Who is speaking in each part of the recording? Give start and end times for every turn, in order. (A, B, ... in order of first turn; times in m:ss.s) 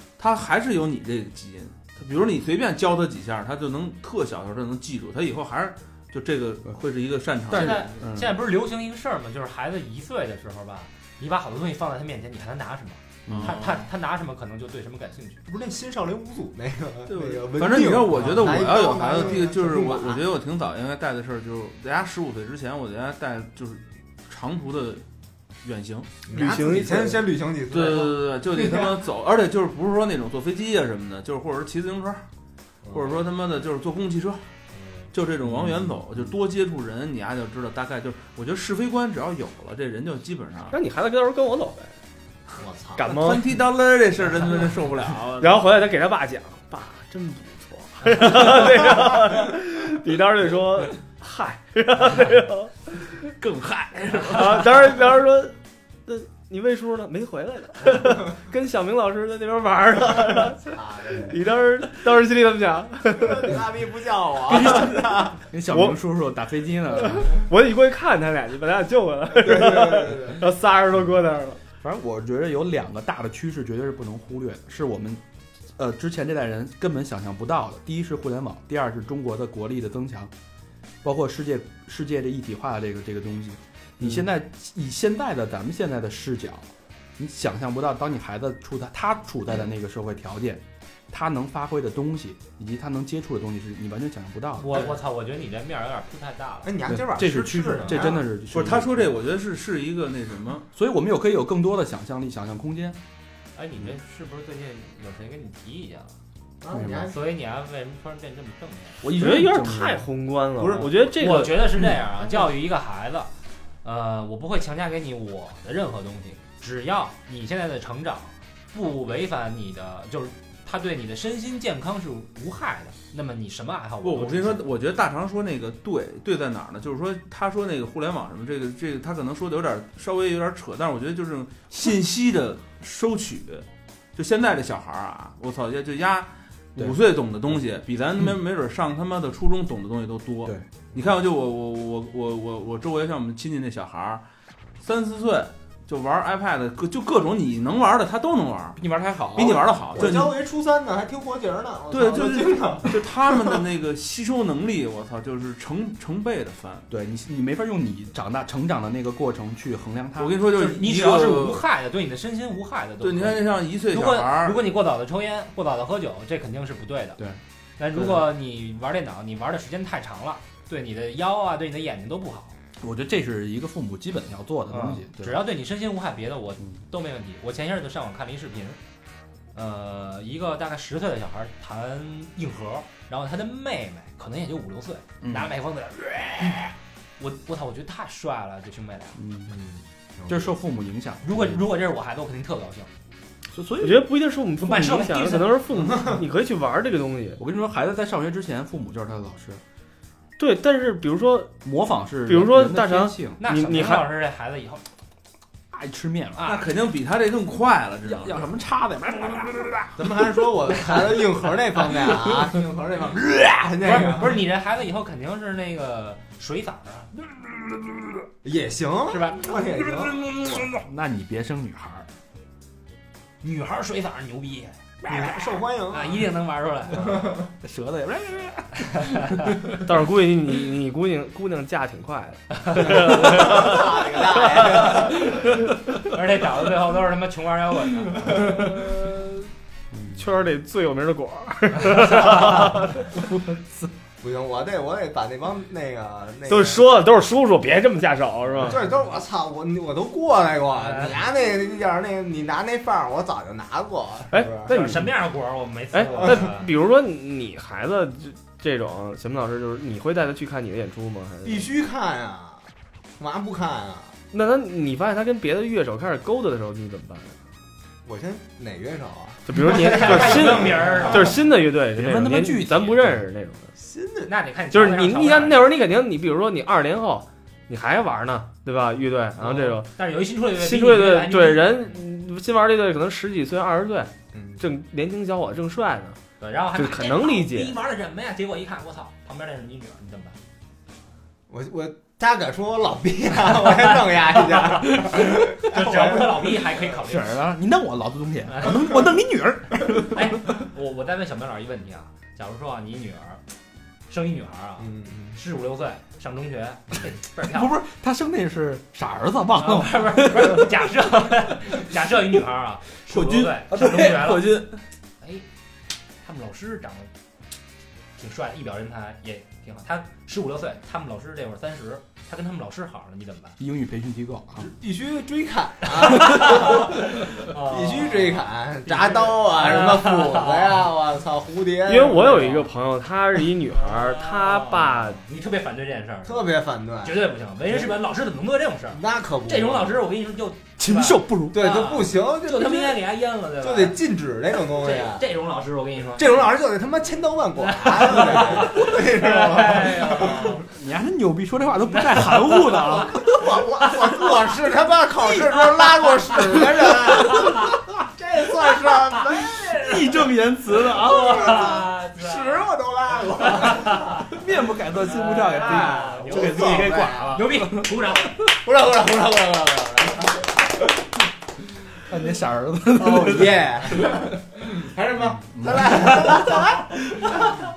0:00.2-0:07.9 A
0:07.5-0:08.4 B
0:07.5-0:15.4 C
0:13.3-0:13.6 B
0:13.3-0:13.9 A
0:15.4-0:20.2 D
0:17.1-0:25.0 A
0:25.6-0:26.2 A
0:26.3-0:29.0 D
0:26.3-0:27.3 E
0:27.7-0:32.2 A
0:32.8-0:33.2 D
0:32.9-0:34.4 A
0:35.1-0:40.8 A
0:40.7-0:41.9 E
0:42.6-0:43.1 D
0:43.0-0:43.4 E
0:43.0-0:45.6 A
0:45.4-0:53.1 E
0:53.2-0:55.0 A
0:54.2-1:03.6 E
1:00.7-1:01.4 D
1:03.1-1:05.4 D
1:04.5-1:07.4 B
1:06.9-1:11.6 E
1:09.4-1:10.4 D
1:11.8-1:15.2 B
1:15.8-1:20.3 B
1:21.0-1:26.7 B
1:27.2-1:34.9 B
1:34.6-1:36.8 C
1:36.6-1:38.2 D
1:36.9-1:39.1 B
1:38.5-1:40.7 A
1:40.7-1:43.0 B
1:43.5-1:46.1 C
1:46.6-1:47.2 D
1:46.7-1:47.1 B
1:47.0-1:49.0 C
1:49.0-1:50.1 B
1:49.1-1:51.8 E
1:50.6-1:50.9 D
1:50.8-1:53.3 C
1:53.8-2:04.7 C
2:04.0-2:24.2 A
2:24.8-2:28.8 A
2:28.8-2:29.6 B
2:29.3-2:30.4 A
2:29.4-2:33.6 D
2:31.9-2:36.9 A
2:36.9-2:40.4 B
2:40.2-2:41.6 A
2:40.5-2:47.2 C
2:43.0-2:44.6 A
2:47.8-2:52.6 C
2:52.8-2:55.4 B
2:54.7-2:58.8 C
2:59.5-3:09.2 C
3:05.2-3:05.5 B
3:09.2-3:09.5 B
3:09.5-3:10.5 D
3:10.3-3:11.6 B
3:11.2-3:12.9 C
3:13.5-3:14.1 B
3:13.8-3:17.4 E
3:14.6-3:15.6 C
3:17.4-3:19.6 B
3:20.4-3:21.6 E
3:21.6-3:23.4 B
3:22.2-3:24.1 E
3:23.4-3:24.8 C
3:25.7-3:26.6 B
3:26.4-3:28.5 A
3:28.0-3:30.4 B
3:30.0-3:34.4 D
3:33.8-3:37.1 C
3:38.4-3:40.7 D
3:39.1-3:39.4 C
3:39.5-3:42.1 B
3:43.4-3:44.8 C
3:45.0-3:46.3 D
3:45.9-3:47.3 C
3:46.9-3:47.5 D
3:47.6-3:49.8 B
3:49.0-3:49.2 C
3:49.8-3:55.1 E
3:52.9-3:55.3 D
3:55.6-3:55.9 B
3:56.0-3:58.8 C
3:59.9-4:00.2 B
4:00.1-4:03.1 E
4:03.4-4:03.9 B
4:04.2-4:06.9 D
4:06.5-4:08.8 E
4:08.6-4:14.7 D
4:10.7-4:11.2 C
4:14.3-4:15.1 E
4:14.7-4:16.7 C
4:15.9-4:21.7 E
4:21.4-4:24.2 D
4:24.3-4:27.4 E
4:28.0-4:31.3 D
4:29.4-4:33.7 E
4:29.6-4:31.4 C
4:31.9-4:33.2 B
4:33.8-4:34.3 D
4:34.2-4:35.6 C
4:34.7-4:39.9 E
4:39.4-4:42.0 C
4:40.5-4:46.2 E
4:44.3-4:44.6 D
4:46.4-4:50.4 C
4:46.7-4:47.8 E
4:51.5-4:56.6 D
4:55.6-4:57.4 C
4:56.8-5:00.5 B
4:58.5-4:59.0 C
5:00.0-5:03.4 C
5:04.1-5:07.8 C
5:04.8-5:05.4 D
5:07.4-5:10.8 B
5:09.5-5:14.6 C
5:13.1-5:14.8 A
5:15.2-5:15.4 C
5:16.2-5:17.1 C
5:18.2-5:23.6 C
5:23.6-5:24.7 B
5:24.6-5:32.7 D
5:26.0-5:30.9 C
5:31.8-5:35.2 E
5:33.7-5:36.5 C
5:36.2-5:38.0 D
5:37.0-5:44.0 C
5:38.9-5:40.0 D
5:40.8-5:41.7 B
5:41.5-5:43.0 D
5:43.6-5:45.2 D
5:44.7-5:46.4 C
5:46.2-5:50.5 D
5:47.6-5:50.7 C
5:50.2-5:53.6 B
5:51.9-5:53.0 C
5:52.8-6:04.4 D
5:55.2-5:58.0 B
5:57.2-5:57.7 C
5:58.9-6:01.9 B
6:00.8-6:02.7 C
6:03.4-6:04.4 C
6:04.2-6:07.9 B
6:05.0-6:08.4 C
6:05.2-6:07.5 D
6:08.4-6:10.7 D
6:12.0-6:14.1 B
6:12.9-6:17.6 D
6:15.5-6:16.0 B